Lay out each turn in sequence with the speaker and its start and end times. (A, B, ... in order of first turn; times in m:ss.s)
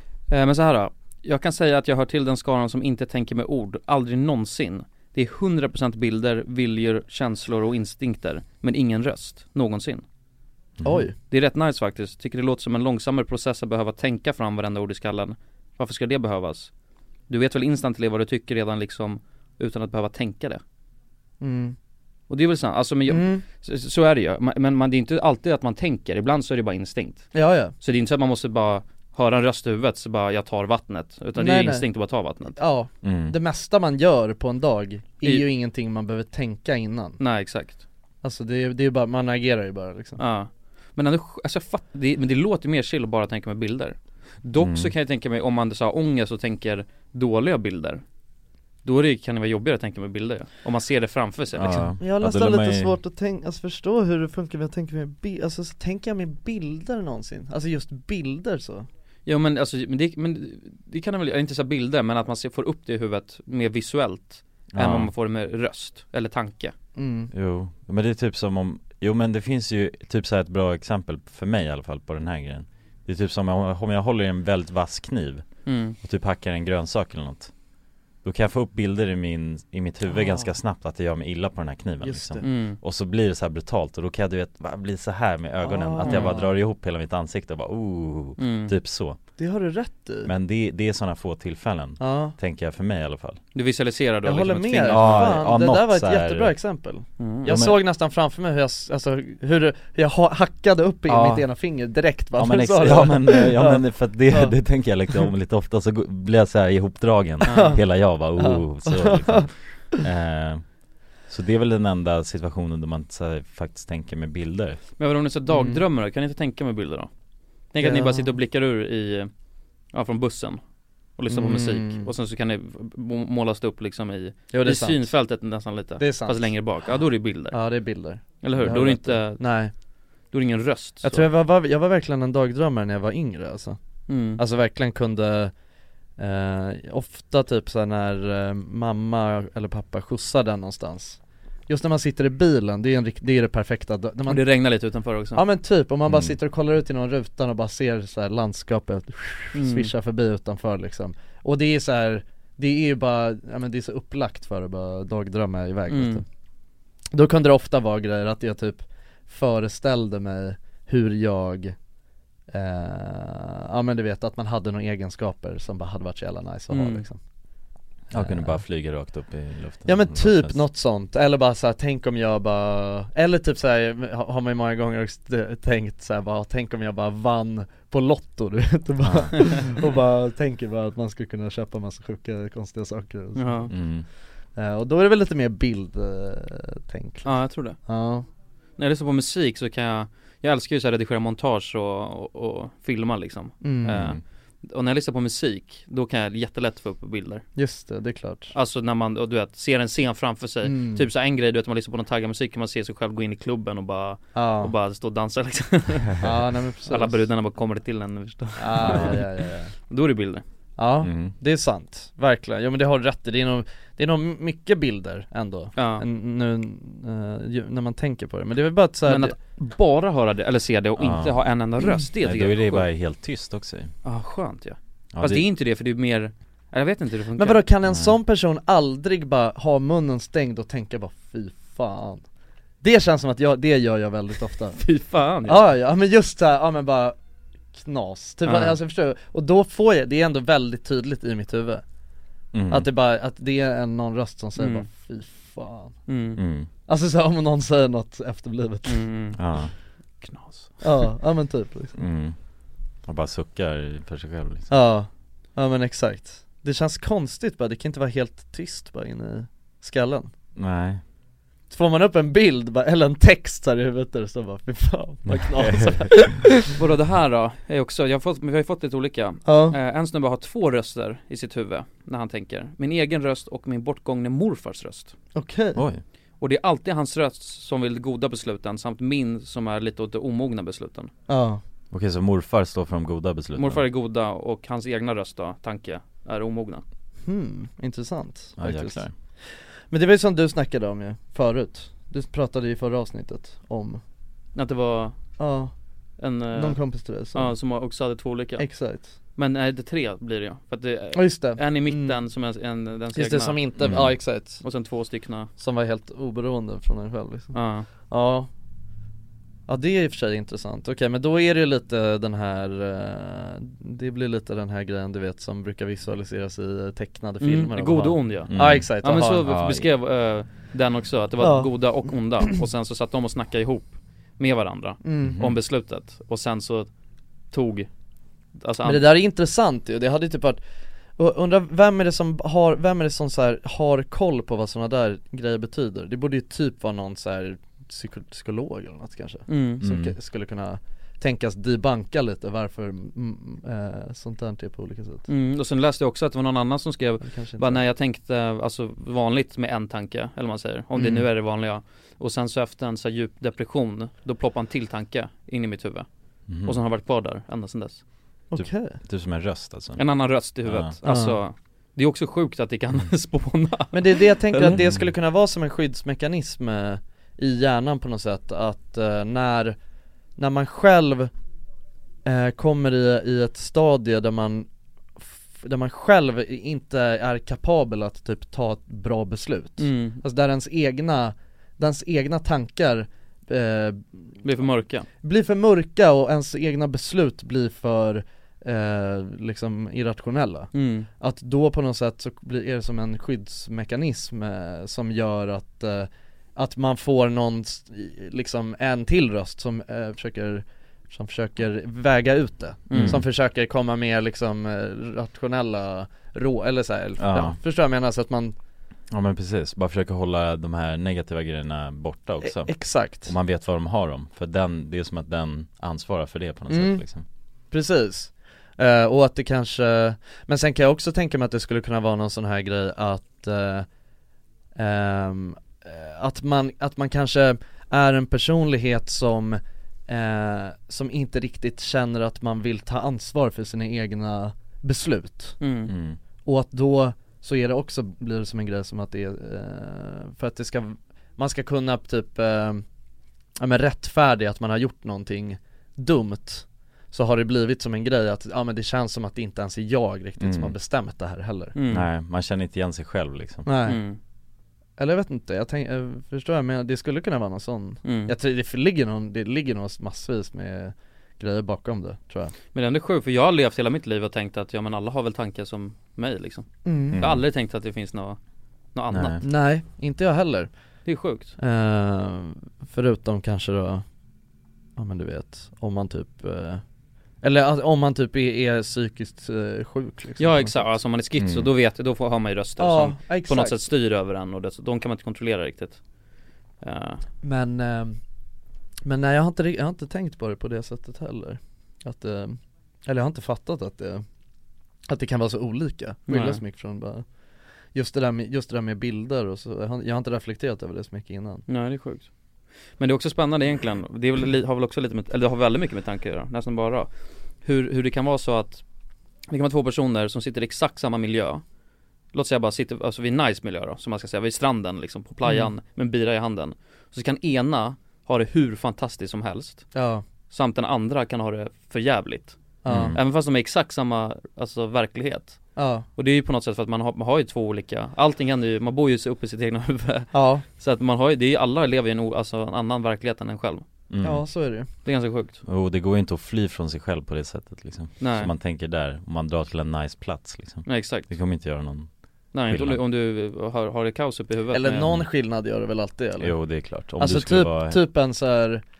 0:00.3-0:10.0 A
0:10.8-0:11.0 B
0:10.8-0:11.1 C
0:11.3-0:16.7 A
0:17.3-0:20.6 A
0:21.4-0:21.8 C
0:22.3-0:32.6 A
0:23.1-0:23.4 C
0:27.3-0:27.7 C
0:31.4-0:31.9 C
0:32.6-0:37.2 C
0:33.0-0:33.3 B
0:37.2-0:37.8 A
0:38.2-0:40.2 C
0:40.2-0:48.0 A
0:44.6-0:44.9 B
0:48.8-0:51.9 A
0:51.5-0:53.0 B
0:52.0-0:58.9 C
0:59.2-1:06.7 A
1:04.7-1:05.1 B
1:07.0-1:07.3 C
1:07.3-1:15.4 B
1:15.6-1:16.0 A
1:16.0-1:17.5 B
1:18.2-1:29.2 B
1:22.0-1:22.5 C
1:22.4-1:22.8 A
1:25.6-1:26.5 C
1:26.0-1:26.3 A
1:28.4-1:28.7 A
1:29.4-1:30.3 C
1:30.2-1:33.4 B
1:32.0-1:32.4 C
1:33.5-1:35.4 A
1:34.2-1:44.6 C
1:34.8-1:36.6 B
1:37.2-1:37.5 A
1:37.4-1:37.8 B
1:42.4-1:54.8 B
1:47.4-1:47.8 A
1:47.5-1:49.8 C
1:55.0-1:57.1 A
1:55.5-1:55.8 C
1:57.7-1:59.3 A
1:57.8-1:58.3 C
1:59.9-2:00.6 A
2:01.2-2:09.6 A
2:01.3-2:02.1 C
2:04.5-2:05.1 C
2:06.0-2:09.7 C
2:10.3-2:11.3 A
2:11.0-2:15.5 C
2:14.1-2:14.4 A
2:16.2-2:24.4 C
2:24.3-2:25.4 A
2:25.3-2:36.2 C
2:26.0-2:26.4 B
2:29.5-2:29.9 A
2:35.9-2:36.2 A
2:37.1-2:41.8 C
2:42.5-2:47.2 C
2:46.7-2:47.1 A
2:48.1-2:48.6 C
2:48.1-2:50.6 B
2:49.8-3:03.9 C
2:59.0-2:59.6 B
3:03.3-3:03.7 A
3:03.7-3:04.0 B
3:04.5-3:08.2 C
3:07.2-3:07.8 A
3:08.8-3:17.4 A
3:13.6-3:14.1 C
3:17.5-3:18.5 C
3:18.5-3:26.2 A
3:20.6-3:21.0 C
3:24.3-3:24.7 C
3:26.2-3:27.2 C
3:26.9-3:29.2 A
3:28.6-3:29.7 C
3:29.8-3:30.4 A
3:30.8-3:39.3 C
3:31.0-3:31.3 B
3:35.7-3:36.0 A
3:39.0-3:42.9 A
3:41.0-3:41.4 B
3:42.2-3:43.9 B
3:44.0-3:47.6 A
3:45.1-3:45.5 B
3:47.4-3:52.2 C
3:47.9-3:48.2 B
3:52.8-3:54.8 C
3:54.8-3:55.6 A
3:55.4-3:57.2 C
3:57.7-4:01.8 C
3:58.4-3:58.8 A
4:02.5-4:02.9 B
4:02.7-4:06.0 C
4:04.6-4:04.8 A
4:06.0-4:06.4 A
4:06.4-4:06.7 B
4:06.8-4:09.1 C
4:08.8-4:11.1 A
4:09.4-4:09.7 B
4:10.8-4:12.0 C
4:11.9-4:12.4 B
4:13.0-4:14.7 B
4:14.7-4:20.3 C
4:20.5-4:21.0 B
4:21.7-4:26.5 C
4:25.2-4:26.3 B
4:26.7-4:35.1 A
4:29.4-4:29.8 C
4:35.3-4:35.8 C
4:35.7-4:36.0 B
4:36.4-4:41.1 A
4:41.3-4:41.6 C
4:41.9-4:43.8 B
4:43.5-4:46.8 A
4:47.2-4:54.0 C
4:48.6-4:49.1 B
4:54.5-4:55.2 A
4:55.4-4:55.7 C
4:56.2-5:05.5 A
4:56.5-4:57.5 C
4:58.6-4:59.1 C
5:01.1-5:02.2 C
5:03.1-5:04.6 C
5:03.8-5:04.2 B
5:05.6-5:08.5 C
5:07.5-5:07.9 A
5:09.7-5:19.4 C
5:17.4-5:26.9 A
5:18.5-5:19.9 B
5:21.4-5:22.3 C
5:25.0-5:25.4 C
5:25.2-5:25.6 B
5:27.5-5:27.9 A
5:28.5-5:29.1 A
5:28.8-5:30.6 C
5:31.2-5:45.2 C
5:39.5-5:39.8 A
5:39.8-5:40.2 B
5:45.3-5:58.0 A
5:47.2-5:47.8 C
5:50.9-5:51.2 C
5:56.5-5:56.8 B
5:58.5-5:59.0 C
5:58.5-6:00.9 B
6:00.0-6:04.8 A
6:01.0-6:01.4 C
6:03.9-6:09.8 C
6:04.8-6:05.1 B
6:10.4-6:11.3 C
6:12.2-6:14.7 C
6:15.2-6:24.4 C
6:19.8-6:20.2 A
6:24.4-6:25.1 A
6:25.2-6:48.6 C
6:30.7-6:31.1 A
6:42.9-6:43.2 A
6:42.9-6:43.3 B
6:47.2-6:47.6 B
6:49.1-6:57.2 B
6:52.4-6:53.3 C
6:56.7-6:57.0 C
6:57.7-7:03.9 C
7:04.7-7:15.6 C
7:15.6-7:15.9 A
7:15.9-7:16.2 B
7:16.4-7:22.8 C
7:23.6-7:31.8 C
7:30.4-7:30.8 B
7:31.7-7:32.1 A
7:31.9-7:33.6 B
7:33.6-7:34.0 C
7:33.8-7:34.2 A
7:35.0-7:42.5 C
7:38.0-7:38.3 A
7:42.7-7:48.4 A
7:46.8-7:47.2 C
7:47.1-7:47.4 B
7:48.9-7:49.4 A
7:49.1-7:49.4 B
7:49.4-7:50.7 C
7:51.0-7:51.5 A
7:51.6-7:54.0 C
7:55.0-7:56.8 C
7:57.4-8:01.0 C
8:00.4-8:06.0 A
8:01.4-8:01.7 B
8:02.8-8:03.8 C
8:06.8-8:07.2 A
8:07.4-8:08.2 C
8:09.0-8:14.2 C
8:15.1-8:17.3 C
8:16.3-8:16.6 A
8:17.9-8:21.6 C
8:21.7-8:22.3 A
8:23.0-8:27.1 A
8:27.6-8:28.8 A
8:29.5-8:31.6 A
8:32.3-8:39.9 A
8:35.4-8:35.7 C
8:39.9-8:40.2 C
8:40.5-8:42.6 A
8:42.8-8:43.2 C
8:42.9-8:43.2 B
8:43.1-8:53.9 A
8:45.8-8:46.0 C
8:50.3-8:50.6 C
8:54.1-8:54.6 B
8:54.2-8:54.9 C
8:55.0-8:55.6 A
8:55.6-9:02.1 B
8:58.2-8:58.5 A
9:00.8-9:01.3 A
9:02.5-9:05.1 A
9:02.6-9:03.0 B
9:04.7-9:08.8 C
9:06.4-9:08.0 B